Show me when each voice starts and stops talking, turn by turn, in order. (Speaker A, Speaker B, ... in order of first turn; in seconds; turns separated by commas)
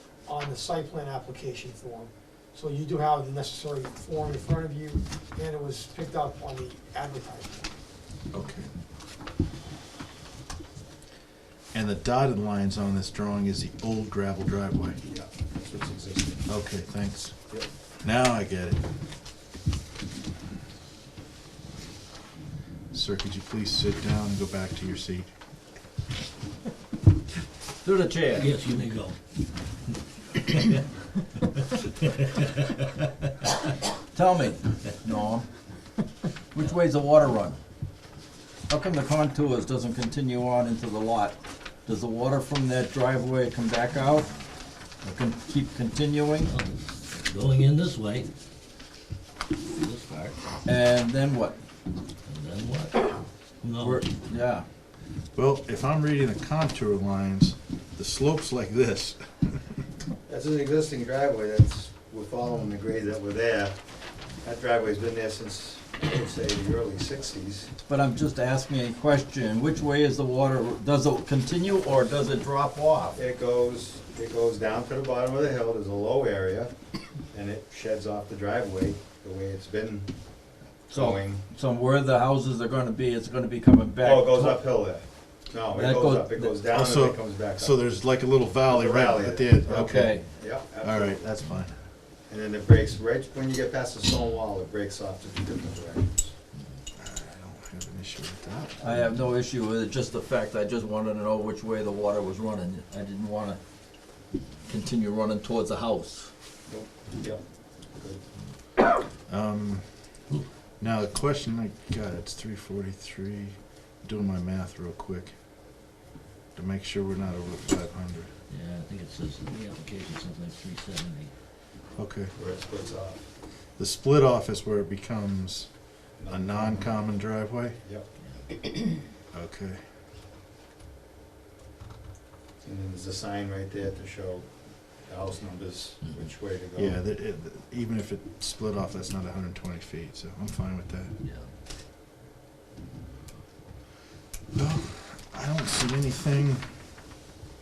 Speaker A: 0.3-7.7, Speaker B: 8.3-8.7, Speaker B: 11.7-15.0, Speaker C: 15.1-16.4, Speaker B: 16.5-17.4, Speaker B: 18.0-18.8, Speaker B: 22.9-25.3, Speaker D: 27.8-28.5, Speaker E: 28.4-29.2, Speaker E: 30.4-30.8, Speaker E: 31.8-33.1, Speaker D: 34.1-35.5, Speaker D: 36.5-37.6, Speaker D: 38.7-44.3, Speaker D: 45.0-46.5, Speaker E: 46.4-48.3, Speaker E: 49.7-50.4, Speaker D: 50.6-51.6, Speaker E: 52.3-54.1, Speaker D: 53.8-54.6, Speaker B: 55.3-59.6, Speaker C: 60.3-63.8, Speaker C: 64.4-67.7, Speaker D: 67.8-73.0, Speaker C: 72.5-76.7, Speaker C: 77.3-80.1, Speaker C: 80.9-81.5, Speaker D: 80.9-84.7, Speaker C: 84.0-87.8, Speaker D: 85.7-86.5, Speaker B: 86.7-90.2, Speaker C: 88.7-91.2, Speaker D: 89.7-90.2, Speaker B: 90.8-91.8, Speaker C: 92.3-96.3, Speaker B: 97.0-99.1, Speaker D: 98.8-103.6, Speaker D: 104.7-106.3, Speaker C: 106.7-107.4, Speaker C: 108.0-108.2, Speaker B: 109.3-109.9, Speaker B: 110.8-115.3, Speaker B: 116.5-118.3, Speaker E: 118.5-121.3, Speaker B: 122.0-122.3, Speaker C: 122.3-123.2, Speaker B: 123.8-125.7, Speaker C: 126.2-126.9, Speaker B: 126.3-127.8, Speaker B: 129.3-129.8, Speaker C: 132.6-134.5, Speaker C: 135.0-137.0, Speaker B: 136.8-141.1, Speaker E: 141.2-141.5, Speaker B: 144.5-146.8